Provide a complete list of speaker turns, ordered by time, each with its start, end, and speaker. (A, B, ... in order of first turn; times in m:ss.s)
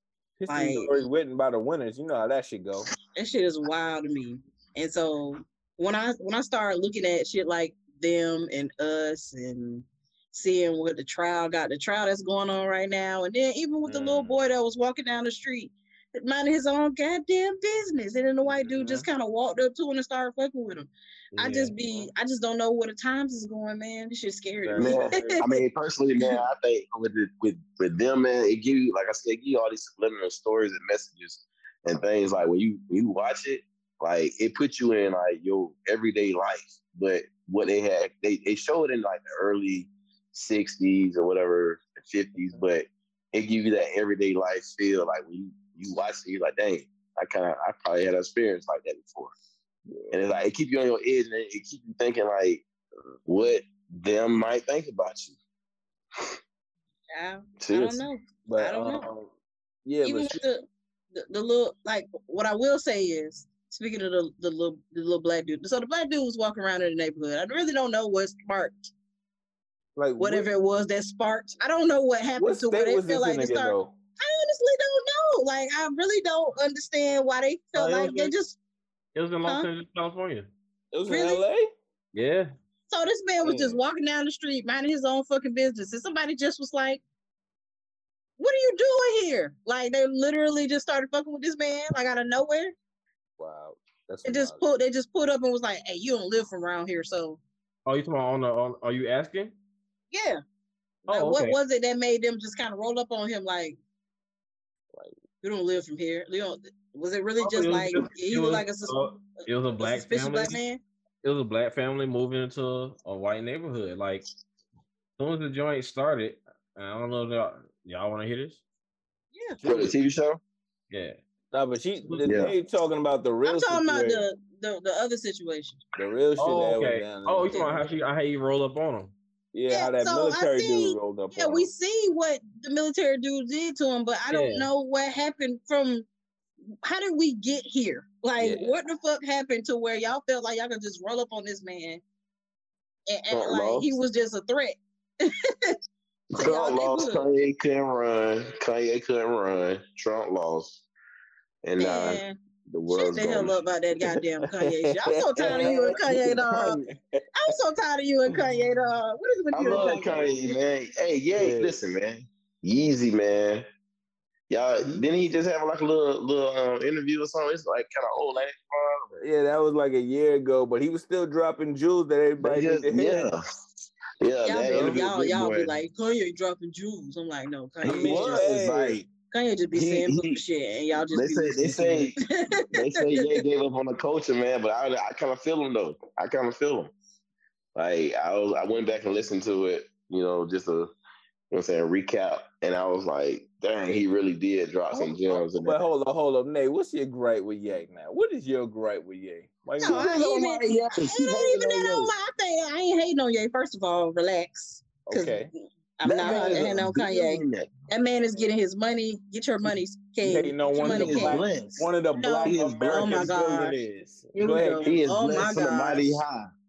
0:00.4-0:02.9 A
0:00.5-0:01.0 B
0:03.2-0:25.6 B
0:13.9-0:14.4 A
0:18.4-0:19.1 A
0:21.3-0:21.8 C
0:24.6-0:25.4 A
0:24.8-0:49.3 D
0:49.9-0:50.2 A
0:50.1-0:52.6 D
0:53.3-0:55.4 D
0:57.1-0:59.1 B
0:57.6-0:58.0 D
0:58.5-0:59.3 A
0:59.8-1:00.4 A
1:00.0-1:08.9 B
1:10.0-1:10.5 A
1:10.2-1:18.6 B
1:12.4-1:14.0 A
1:17.8-1:18.3 C
1:19.2-1:20.5 C
1:20.9-1:21.7 A
1:21.1-1:21.4 B
1:22.1-1:22.5 C
1:22.9-1:27.0 B
1:23.4-1:23.8 A
1:28.4-1:32.7 B
1:33.4-1:34.6 A
1:34.2-1:37.4 B
1:37.9-1:39.6 C
1:40.1-1:40.4 B
1:41.1-1:41.6 C
1:41.1-1:43.8 B
1:45.4-1:49.0 B
1:47.4-1:50.6 C
1:49.8-1:50.8 B
1:51.2-1:54.3 C
1:55.2-1:58.6 C
1:59.6-1:59.9 A
1:59.6-2:00.4 D
2:00.9-2:01.2 C
2:01.5-2:04.3 A
2:02.2-2:02.5 D
2:03.4-2:05.8 B
2:06.0-2:07.9 A
2:06.4-2:09.1 C
2:07.5-2:07.9 B
2:09.5-2:11.7 A
2:09.7-2:16.1 B
2:14.3-2:14.7 C
2:16.8-2:22.0 B
2:18.4-2:18.7 A
2:23.1-2:25.8 B
2:23.3-2:24.0 D
2:26.3-2:30.8 D
2:26.4-2:27.3 B
2:31.6-2:33.6 D
2:31.8-2:32.4 B
2:32.9-2:36.8 B
2:34.6-2:37.2 A
2:37.4-2:40.6 B
2:39.5-2:43.6 D
2:39.7-2:40.2 A
2:41.3-2:41.8 A
2:44.5-2:49.2 D
2:49.2-2:53.3 A
2:52.4-2:53.4 D
2:54.2-2:55.8 D
2:54.4-2:58.5 B
2:54.6-2:55.0 A
2:57.8-2:59.0 A
2:57.8-2:59.1 D
2:59.3-3:01.8 B
2:59.7-3:00.4 D
3:01.1-3:02.2 D
3:01.7-3:02.1 A
3:02.4-3:03.1 B
3:02.7-3:06.9 D
3:07.8-3:10.9 D
3:11.5-3:15.8 D
3:14.9-3:20.2 A
3:19.8-3:31.4 B
3:19.8-3:22.1 D
3:25.1-3:25.5 A
3:26.0-3:27.8 D
3:26.3-3:26.6 A
3:30.2-3:35.0 A
3:30.8-3:31.9 D
3:32.2-3:33.8 B
3:32.4-3:33.4 D
3:34.3-3:36.2 B
3:34.8-3:36.5 D